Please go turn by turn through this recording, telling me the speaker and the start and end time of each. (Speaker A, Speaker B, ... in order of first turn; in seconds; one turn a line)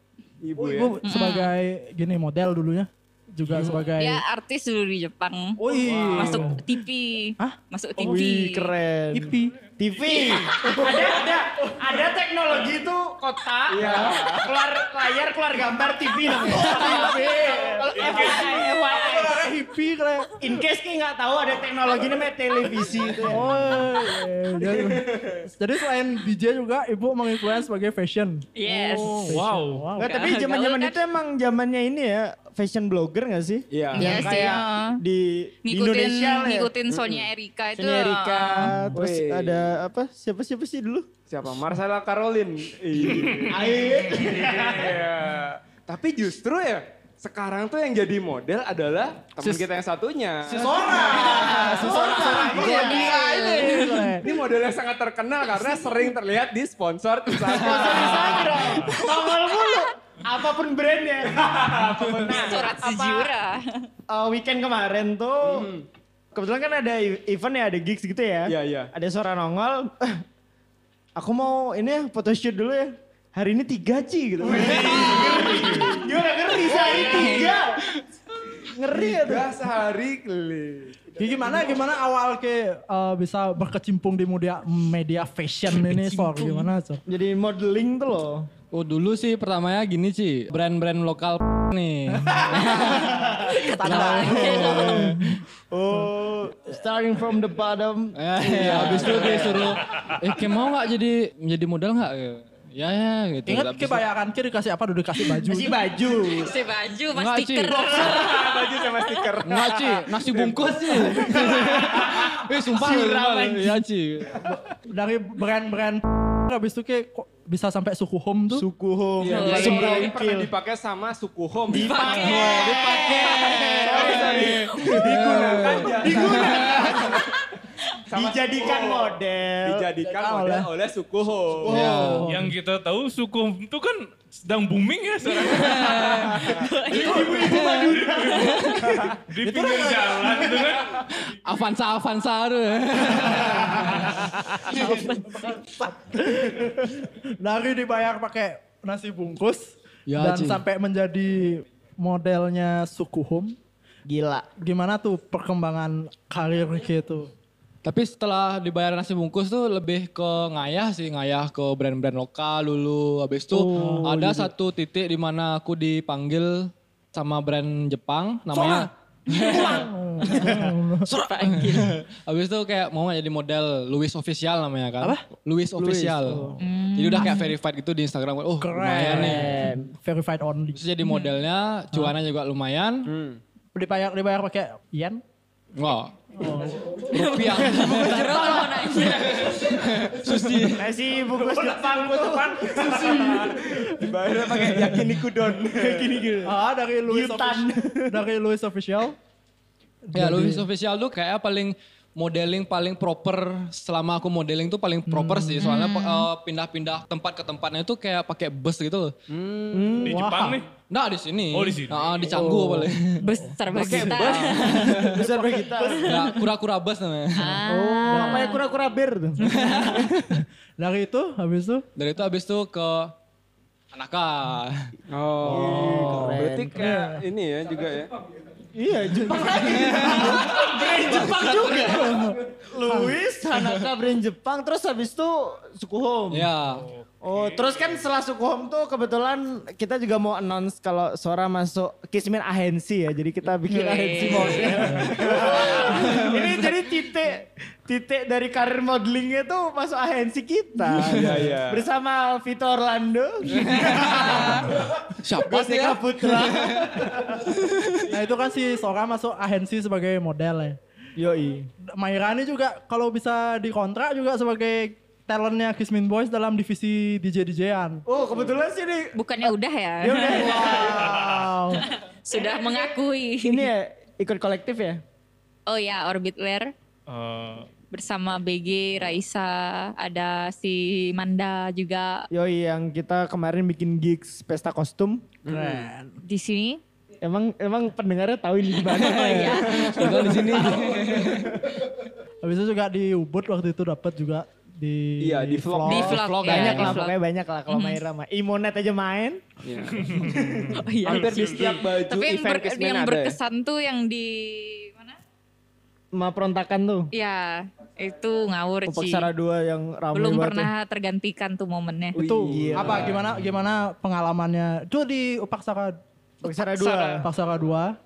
Speaker A: 0.4-1.0
Speaker B: 0.6-4.2
Speaker C: 1.0-1.5
Speaker C: 4.0-8.7
Speaker B: 5.6-6.6
Speaker A: 5.8-6.5
Speaker B: 7.4-8.2
Speaker D: 8.0-19.4
Speaker B: 9.1-9.6
Speaker B: 10.6-11.1
Speaker A: 13.7-14.5
Speaker B: 16.4-20.4
Speaker C: 16.7-17.3
Speaker C: 18.5-18.8
Speaker D: 20.4-23.5
Speaker B: 23.2-30.2
Speaker A: 24.8-25.4
Speaker C: 28.6-29.3
Speaker D: 28.7-29.3
Speaker E: 29.3-29.9
Speaker D: 30.0-36.7
Speaker C: 30.0-31.0
Speaker A: 33.7-34.2
Speaker C: 33.9-35.0
Speaker B: 34.0-34.6
Speaker C: 35.6-38.7
Speaker A: 36.9-37.3
Speaker D: 37.7-41.1
Speaker B: 38.5-39.0
Speaker A: 38.9-39.7
Speaker A: 41.3-51.7
Speaker E: 43.3-43.5
Speaker D: 43.5-45.0
Speaker B: 50.5-54.3
Speaker D: 50.8-54.3
Speaker A: 52.5-53.2
Speaker A: 54.2-58.9
Speaker D: 57.4-63.3
Speaker C: 58.9-59.9
Speaker A: 61.4-62.7
Speaker C: 62.3-63.8
Speaker D: 64.1-65.7
Speaker A: 65.4-65.8
Speaker D: 66.3-70.2
Speaker A: 68.5-68.9
Speaker D: 71.2-77.8
Speaker A: 74.4-76.1
Speaker A: 76.7-77.5
Speaker C: 77.1-77.5
Speaker D: 78.6-79.5
Speaker A: 78.9-81.0
Speaker B: 81.2-87.0
Speaker C: 85.9-86.7
Speaker D: 87.0-88.5
Speaker F: 88.7-93.1
Speaker B: 92.1-95.4
Speaker D: 93.0-93.5
Speaker C: 93.5-95.1
Speaker D: 94.0-95.2
Speaker D: 95.7-99.8
Speaker F: 98.1-104.0
Speaker B: 103.5-105.8
Speaker D: 105.5-106.6
Speaker C: 106.3-109.3
Speaker F: 107.1-107.8
Speaker A: 107.8-111.2
Speaker F: 109.4-114.3
Speaker D: 111.2-113.8
Speaker B: 114.9-118.6
Speaker D: 118.5-120.5
Speaker A: 119.2-122.5
Speaker C: 119.3-120.1
Speaker F: 119.5-120.1
Speaker D: 121.7-127.2
Speaker C: 121.8-123.8
Speaker F: 122.0-126.1
Speaker A: 123.8-127.2
Speaker D: 128.1-129.8
Speaker A: 128.1-131.7
Speaker B: 130.0-130.7
Speaker D: 131.7-132.2
Speaker F: 131.7-132.3
Speaker B: 131.7-132.5
Speaker E: 132.3-141.1
Speaker C: 135.4-138.9
Speaker F: 135.7-136.5
Speaker D: 137.0-139.1
Speaker F: 137.4-137.7
Speaker B: 139.4-140.8
Speaker F: 141.2-144.8
Speaker B: 144.7-153.6
Speaker C: 144.7-145.6
Speaker F: 150.1-150.6
Speaker D: 154.1-154.5
Speaker B: 154.6-157.3
Speaker F: 157.8-169.7
Speaker D: 163.5-164.5
Speaker B: 163.7-164.1
Speaker B: 168.5-171.1
Speaker D: 169.5-170.7
Speaker C: 171.1-171.9
Speaker F: 171.1-179.5
Speaker D: 175.8-176.5
Speaker C: 176.6-177.5
Speaker B: 178.6-180.8
Speaker D: 179.1-179.9
Speaker F: 180.7-183.1
Speaker C: 181.0-181.4
Speaker A: 183.1-183.4
Speaker B: 183.7-185.2
Speaker F: 185.8-186.1
Speaker B: 186.3-187.1
Speaker F: 187.1-190.8
Speaker C: 187.1-189.6
Speaker D: 187.8-188.8
Speaker D: 190.7-193.9
Speaker B: 191.2-194.1
Speaker A: 192.8-196.3
Speaker B: 194.7-195.1
Speaker D: 195.6-198.2
Speaker B: 196.4-199.2
Speaker B: 200.1-200.7
Speaker F: 200.1-209.1
Speaker B: 205.1-205.6
Speaker C: 205.6-206.3
Speaker A: 209.3-210.1
Speaker D: 209.7-210.2
Speaker E: 210.0-210.7
Speaker B: 210.1-210.6
Speaker F: 210.9-213.2
Speaker E: 211.5-212.2
Speaker D: 212.3-212.9
Speaker B: 213.2-214.2
Speaker C: 213.2-215.3
Speaker F: 213.9-215.2
Speaker D: 214.8-216.0
Speaker B: 215.2-216.4
Speaker C: 215.8-216.4
Speaker F: 216.0-217.6
Speaker C: 217.3-218.7
Speaker D: 217.7-220.1
Speaker B: 218.1-218.5
Speaker F: 219.4-220.0
Speaker B: 219.7-221.8
Speaker F: 221.9-223.1
Speaker F: 223.9-224.9
Speaker A: 225.1-228.1
Speaker B: 225.4-227.2
Speaker D: 225.4-226.9
Speaker D: 228.7-236.5
Speaker B: 229.7-230.5
Speaker F: 229.7-232.1
Speaker B: 231.7-233.1
Speaker F: 236.3-236.8
Speaker E: 236.8-238.0
Speaker D: 237.2-254.8
Speaker C: 243.7-244.9
Speaker B: 244.8-245.2
Speaker A: 251.1-251.8
Speaker F: 253.5-254.7
Speaker F: 255.2-258.0
Speaker D: 255.4-257.4
Speaker B: 258.1-260.8
Speaker D: 261.2-261.7
Speaker B: 261.9-268.0
Speaker D: 268.1-271.3
Speaker C: 269.1-270.7
Speaker B: 270.3-271.9
Speaker E: 271.0-271.4
Speaker C: 271.7-273.7
Speaker D: 272.3-275.0
Speaker C: 275.7-276.7
Speaker E: 277.1-277.7
Speaker C: 277.9-282.2
Speaker D: 282.3-285.2
Speaker A: 285.4-285.9
Speaker B: 285.5-286.2
Speaker C: 286.2-286.8
Speaker D: 287.2-291.6
Speaker C: 288.8-290.7
Speaker F: 289.0-291.5
Speaker B: 292.4-296.2
Speaker A: 295.2-296.3
Speaker C: 295.9-298.0
Speaker F: 296.2-297.0
Speaker D: 296.4-299.4
Speaker A: 299.6-300.2
Speaker E: 299.9-301.7
Speaker D: 300.2-300.7
Speaker C: 300.8-305.2
Speaker A: 301.0-303.4
Speaker D: 306.1-307.1
Speaker C: 307.1-309.3
Speaker D: 308.9-310.7
Speaker C: 310.1-312.2
Speaker A: 312.1-313.2
Speaker B: 312.1-315.9
Speaker D: 312.5-313.1
Speaker D: 316.4-317.2
Speaker C: 316.4-317.2
Speaker B: 317.2-318.0